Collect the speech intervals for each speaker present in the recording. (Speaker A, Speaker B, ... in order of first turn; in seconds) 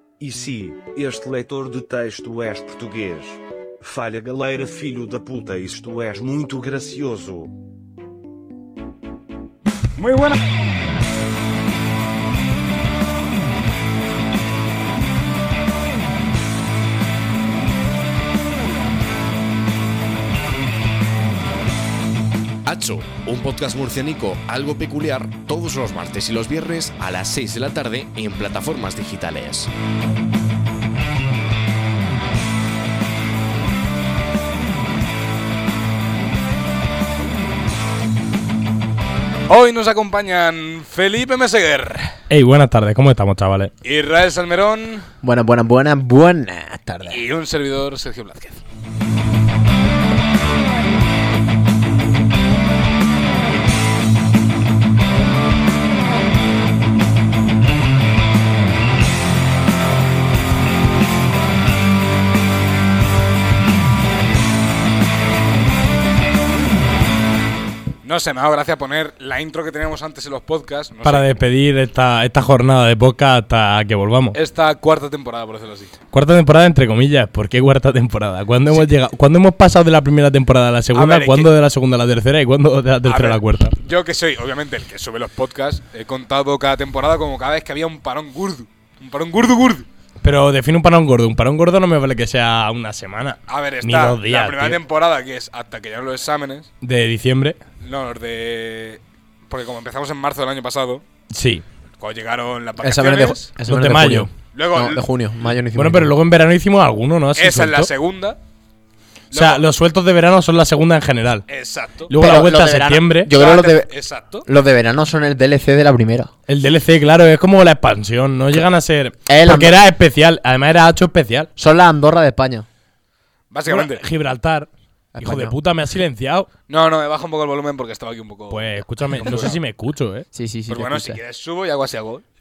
Speaker A: 0.2-7.5
Speaker B: 10.0-10.4, 39.5-42.2, 43.8-45.1, 47.1-48.6, 68.0-71.3, 74.3-76.0, 80.9-81.5, 83.0-89.9, 93.5-96.7, 97.8-101.0, 102.0-103.5, 104.5-105.1, 107.4-108.4, 109.3-109.7, 111.5-112.1, 113.3-114.5, 123.5-124.0, 126.7-129.6, 130.7-132.2
Speaker C: 22.7-29.7
Speaker D: 42.3-43.7, 71.0-74.4, 76.1-83.8, 90.2-94.8, 96.8-97.6, 101.3-101.7, 103.6-104.3, 105.8-107.9, 109.3-111.5, 112.1-113.3, 116.5-121.5, 123.7-126.5, 128.5-130.3
Speaker E: 45.2-47.2, 102.8-106.1, 112.2-113.9, 114.5-116.3, 119.3-119.8, 121.6-122.7, 125.2-125.6, 130.3-131.2